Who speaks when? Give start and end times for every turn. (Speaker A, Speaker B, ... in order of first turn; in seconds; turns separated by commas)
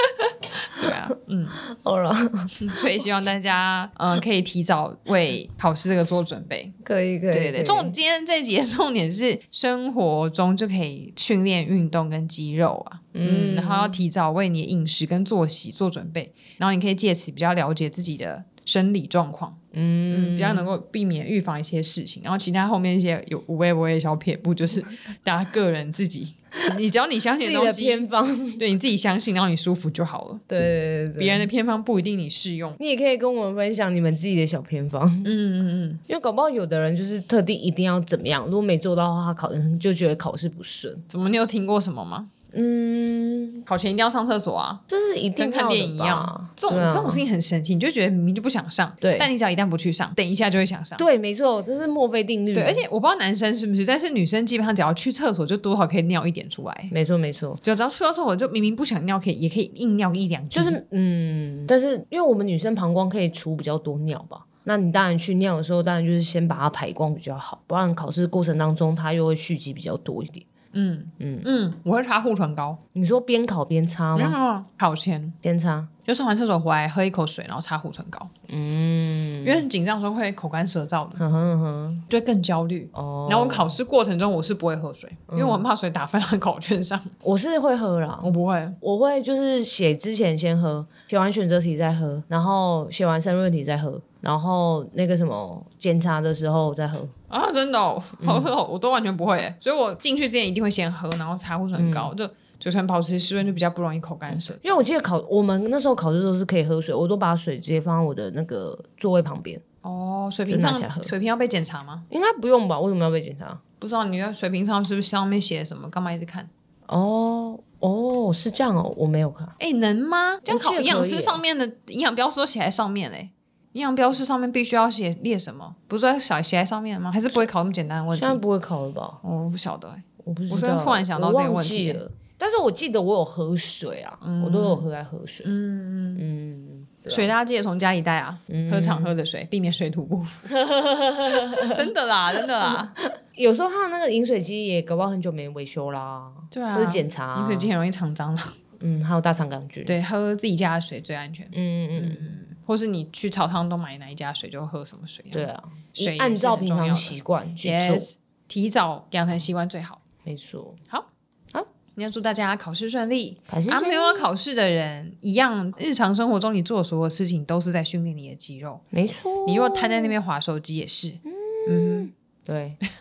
Speaker A: 0.6-1.6, Speaker B: 1.6-2.7, Speaker A: 2.6-6.7, Speaker B: 6.8-7.9, Speaker A: 7.3-19.6, Speaker B: 13.1-14.0, Speaker B: 19.7-20.7, Speaker A: 20.1-28.1, Speaker B: 27.4-28.6, Speaker A: 28.6-30.4, Speaker B: 30.5-31.5, Speaker A: 31.2-32.8, Speaker B: 32.8-35.3, Speaker A: 35.2-36.0, Speaker B: 36.1-41.0, Speaker A: 41.1-42.3, Speaker B: 42.5-43.6, Speaker A: 43.7-44.8, Speaker B: 44.9-47.2, Speaker A: 45.4-51.0, Speaker B: 49.0-49.3, Speaker B: 51.0-52.8, Speaker A: 52.5-56.9, Speaker B: 56.9-57.6, Speaker A: 57.6-60.8, Speaker B: 60.5-70.5, Speaker A: 70.7-72.8, Speaker B: 71.2-71.5, Speaker B: 72.9-74.4, Speaker A: 74.1-75.4, Speaker B: 75.4-75.9, Speaker A: 76.0-78.3, Speaker B: 78.5-79.7, Speaker A: 79.4-81.2, Speaker B: 81.2-82.1, Speaker A: 82.1-87.1, Speaker B: 82.9-83.7, Speaker B: 85.3-85.7, Speaker B: 87.2-97.1, Speaker A: 88.2-88.8, Speaker A: 97.3-104.8, Speaker B: 98.2-98.5, Speaker B: 101.7-102.1, Speaker B: 104.3-109.6, Speaker A: 109.8-112.0, Speaker B: 110.5-111.1, Speaker B: 112.1-113.6, Speaker A: 113.8-116.5, Speaker B: 116.9-119.5, Speaker A: 119.6-128.4, Speaker B: 120.5-121.4, Speaker B: 128.1-129.2, Speaker A: 129.2-132.0, Speaker B: 130.2-135.5, Speaker A: 134.2-134.9, Speaker A: 135.4-136.2, Speaker B: 136.2-137.3, Speaker A: 137.1-140.4, Speaker B: 138.5-139.1, Speaker B: 140.4-141.9, Speaker A: 141.5-142.9, Speaker B: 142.6-147.7, Speaker A: 146.5-148.6, Speaker B: 148.8-149.9, Speaker A: 149.8-160.0, Speaker B: 151.5-152.4, Speaker B: 155.3-158.1, Speaker B: 160.2-160.8, Speaker A: 161.9-168.8, Speaker B: 163.5-164.3, Speaker B: 168.9-170.1, Speaker A: 169.4-172.1, Speaker B: 171.3-172.8